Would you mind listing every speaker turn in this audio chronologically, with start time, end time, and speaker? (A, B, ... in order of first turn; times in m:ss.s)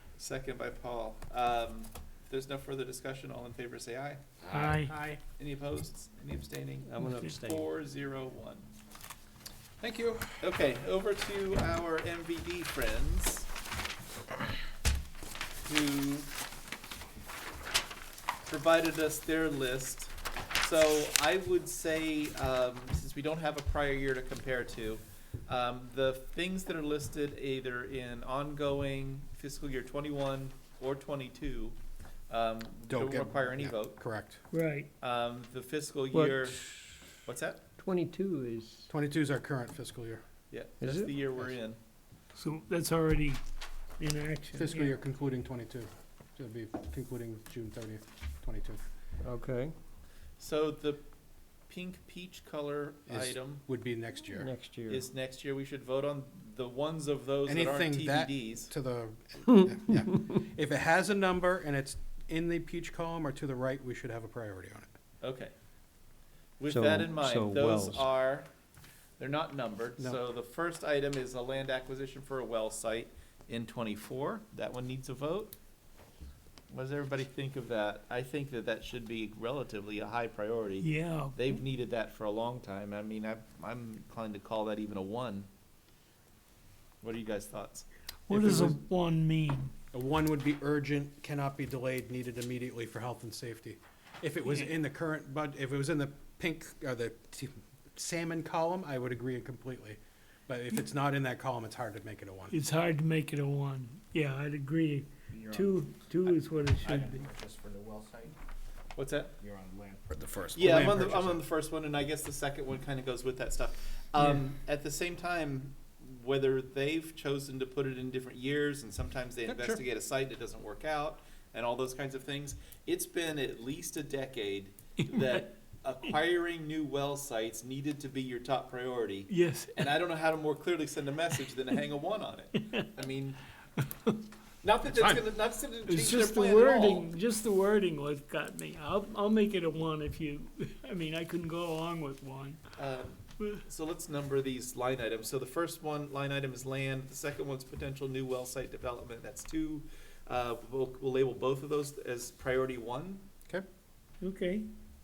0:00.2-0:04.2 A
0:04.5-0:04.9 B
0:04.5-0:04.9 C
0:04.6-0:05.2 D
0:05.4-0:08.7 A
0:06.8-0:07.7 E
0:07.0-0:07.3 C
0:09.8-0:10.4 D
0:10.4-0:13.5 A
0:15.6-0:16.3 A
0:18.4-0:31.8 A
0:32.3-0:34.0 A
0:32.9-0:34.4 D
0:34.5-0:34.9 C
0:35.0-0:36.6 A
0:36.1-0:36.9 E
0:37.2-0:37.6 A
0:37.8-0:38.9 E
0:38.9-0:40.2 D
0:40.5-0:41.8 A
0:40.8-0:41.1 E
0:42.3-0:43.4 C
0:44.0-0:45.0 C
0:44.5-0:48.8 D
0:49.2-0:49.7 E
0:50.4-0:51.0 A
0:51.7-0:53.6 A
0:53.1-0:54.5 D
0:54.3-0:55.0 E
0:54.9-0:58.7 A
0:57.4-1:04.9 D
1:05.2-1:05.5 A
1:06.6-1:08.5 A
1:06.7-1:08.0 E
1:09.2-1:15.6 A
1:16.7-1:25.5 A
1:20.8-1:21.4 C
1:27.0-1:27.9 A
1:28.3-1:29.7 C
1:28.3-1:28.8 D
1:29.9-1:42.6 D
1:42.5-1:47.2 C
1:45.3-1:48.4 B
1:49.0-1:49.3 A
1:49.4-1:50.9 B
1:50.5-1:51.4 D
1:50.5-2:13.4 A
1:59.5-1:59.8 D
2:05.0-2:05.4 C
2:09.3-2:09.9 C
2:14.6-2:17.1 A
2:14.8-2:15.2 D
2:15.8-2:22.6 C
2:22.8-2:33.2 A
2:34.2-2:34.7 C